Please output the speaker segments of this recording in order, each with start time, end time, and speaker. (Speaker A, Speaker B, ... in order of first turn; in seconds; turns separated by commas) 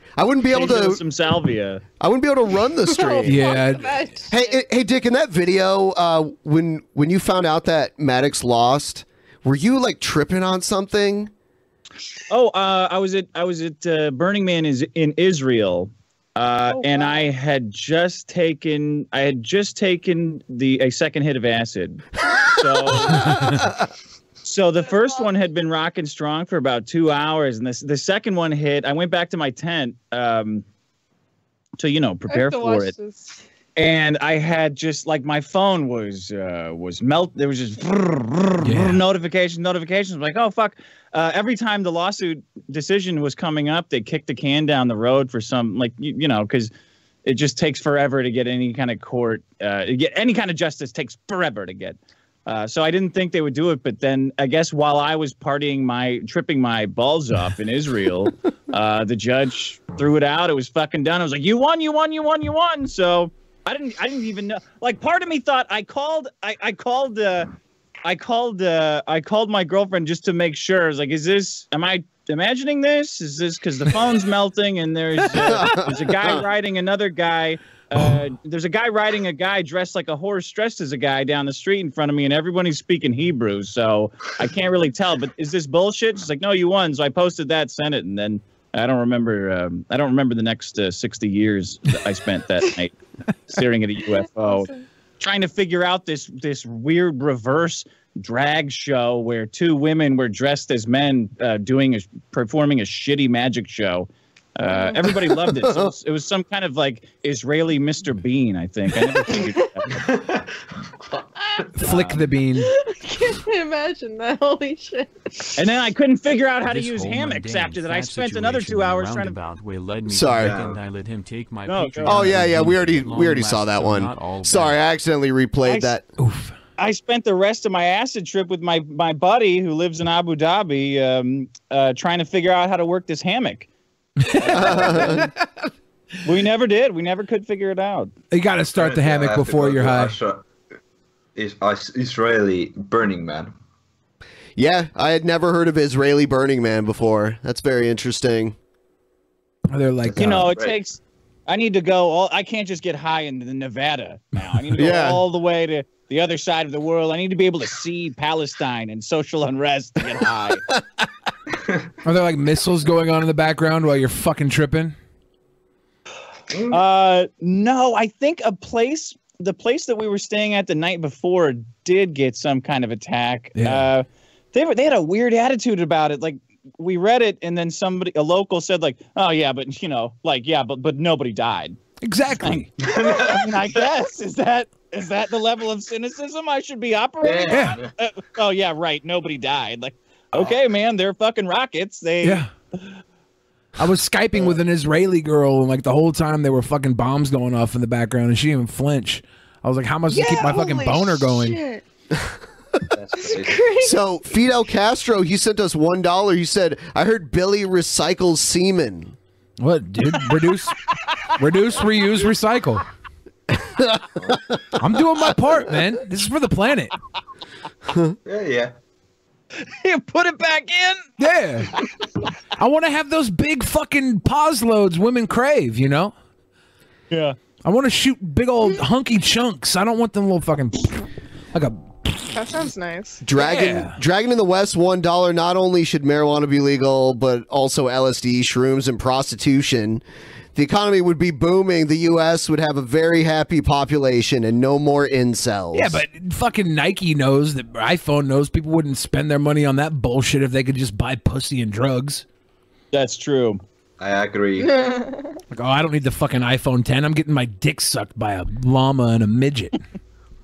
Speaker A: 0.2-1.0, Speaker B: 0.5-1.8, Speaker A: 2.0-3.5, Speaker C: 2.9-4.6, Speaker D: 3.3-4.0, Speaker A: 4.3-11.3, Speaker B: 12.3-23.5, Speaker C: 16.7-17.3, Speaker B: 24.4-30.6, Speaker C: 24.8-25.3, Speaker B: 31.8-32.9, Speaker C: 32.3-33.4, Speaker B: 33.8-46.7, Speaker D: 38.6-39.0, Speaker B: 47.2-67.5, Speaker B: 68.0-92.9, Speaker A: 75.4-76.4, Speaker B: 93.5-94.7, Speaker C: 94.5-94.8, Speaker B: 95.2-109.9, Speaker C: 104.7-105.1, Speaker A: 105.5-105.9, Speaker E: 109.9-110.5, Speaker E: 111.1-112.2, Speaker D: 111.8-112.7, Speaker C: 112.6-115.5, Speaker B: 115.6-119.4, Speaker F: 116.6-124.8, Speaker A: 120.1-120.6, Speaker E: 120.4-120.8, Speaker B: 121.7-122.3, Speaker A: 122.0-126.0, Speaker B: 125.7-125.9, Speaker D: 126.2-126.5, Speaker B: 126.8-133.7, Speaker D: 134.2-135.3, Speaker B: 134.5-135.2, Speaker A: 134.5-135.3, Speaker B: 136.2-138.1, Speaker D: 138.3-140.2, Speaker E: 138.8-140.5, Speaker E: 141.4-143.5, Speaker A: 144.6-148.6, Speaker D: 149.7-150.4, Speaker E: 150.1-150.8, Speaker B: 150.2-160.6, Speaker A: 154.8-155.2, Speaker D: 162.0-164.9, Speaker E: 166.5-166.8, Speaker B: 166.7-181.8, Speaker D: 173.6-173.9, Speaker D: 182.0-182.7, Speaker B: 182.4-192.4, Speaker E: 182.8-183.8, Speaker E: 187.2-187.9, Speaker D: 187.5-187.8, Speaker D: 192.2-192.5, Speaker D: 193.8-201.6, Speaker C: 200.1-201.8, Speaker E: 202.9-203.8, Speaker C: 203.2-204.0, Speaker A: 203.8-209.2, Speaker D: 209.6-210.8, Speaker D: 211.4-212.8, Speaker A: 213.5-214.1, Speaker D: 214.8-216.9, Speaker E: 218.3-218.7, Speaker B: 219.6-221.0, Speaker D: 221.2-221.7, Speaker D: 222.6-226.1, Speaker B: 227.1-227.4, Speaker D: 227.6-231.0, Speaker D: 231.5-232.3, Speaker C: 232.3-233.2, Speaker A: 233.2-240.0, Speaker D: 233.3-234.0, Speaker A: 240.6-246.0, Speaker D: 245.7-252.2, Speaker B: 252.9-253.6, Speaker E: 254.0-254.8, Speaker C: 254.6-255.4, Speaker D: 255.5-259.8